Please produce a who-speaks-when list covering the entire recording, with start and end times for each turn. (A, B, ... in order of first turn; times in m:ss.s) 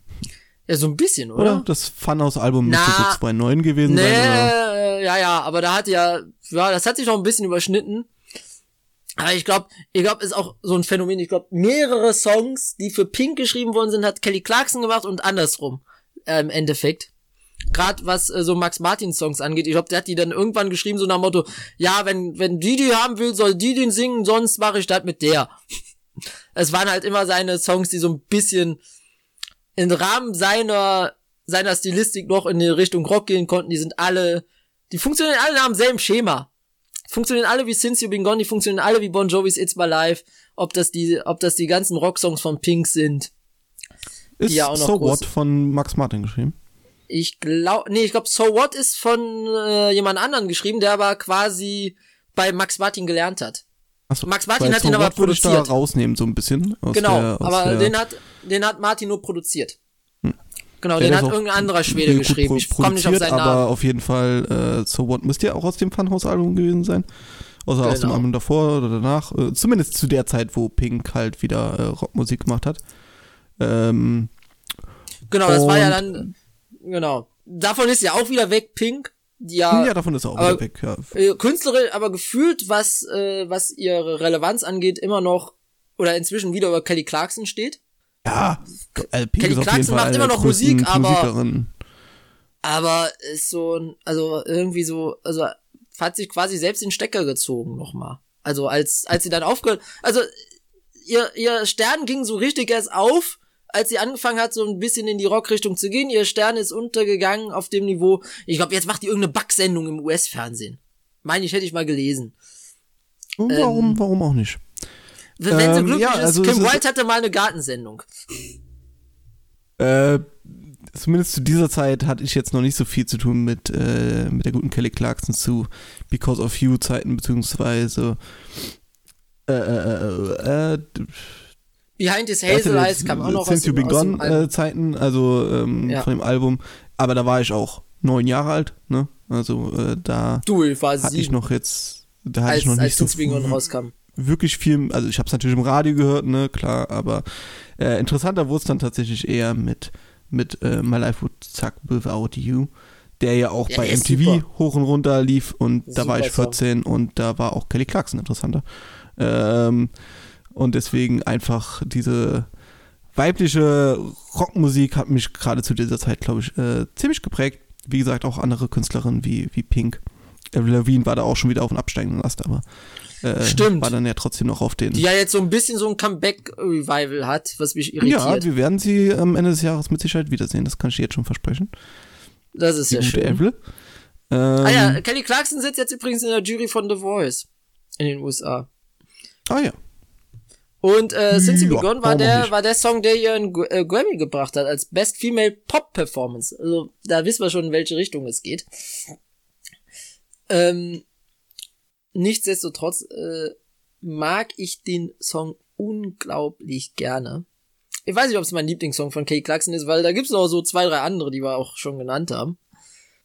0:00.7-0:01.6 A
0:01.4-0:04.5 B
0:02.6-0:03.2 A
0:03.8-0:08.1 A
0:09.2-0:17.1 A
0:17.7-0:25.5 A
0:26.5-0:28.8 A
0:29.8-0:36.5 A
0:37.1-0:43.3 A
0:44.4-0:46.5 B
0:44.5-0:45.2 A
0:47.1-0:53.6 A
0:54.1-0:57.9 B
0:54.2-0:55.7 A
0:56.9-0:59.8 A
1:00.8-1:03.6 A
1:01.0-1:07.0 B
1:07.6-1:12.8 B
1:07.8-1:08.2 A
1:13.6-1:14.3 B
1:15.3-1:16.3 A
1:15.4-1:16.3 B
1:16.8-1:27.8 A
1:19.7-1:21.1 B
1:28.2-1:31.7 B
1:29.0-1:31.3 A
1:32.6-1:40.3 A
1:41.0-1:52.3 A
1:53.4-1:54.6 B
1:53.5-1:54.0 A
1:55.4-1:58.1 A
1:55.5-1:56.8 B
1:59.8-2:08.2 B
2:09.5-2:11.3 B
2:12.0-2:14.5 A
2:12.5-2:20.4 B
2:20.4-2:21.4 A
2:21.0-2:23.6 B
2:22.5-2:23.9 A
2:24.1-2:27.2 B
2:27.8-2:38.6 B
2:33.7-2:34.4 A
2:35.9-2:36.6 A
2:39.2-2:39.9 B
2:40.5-2:42.5 B
2:43.1-2:50.0 B
2:50.5-2:52.6 B
2:53.2-2:55.0 B
2:53.4-2:53.9 A
2:54.9-2:58.4 A
2:58.0-3:01.7 B
3:02.5-3:03.4 A
3:02.9-3:03.6 B
3:04.3-3:05.0 B
3:04.6-3:07.5 A
3:08.0-3:08.7 A
3:09.5-3:09.7 B
3:10.8-3:19.1 A
3:11.3-3:12.5 B
3:20.5-3:21.0 A
3:22.1-3:27.4 A
3:28.1-3:32.6 A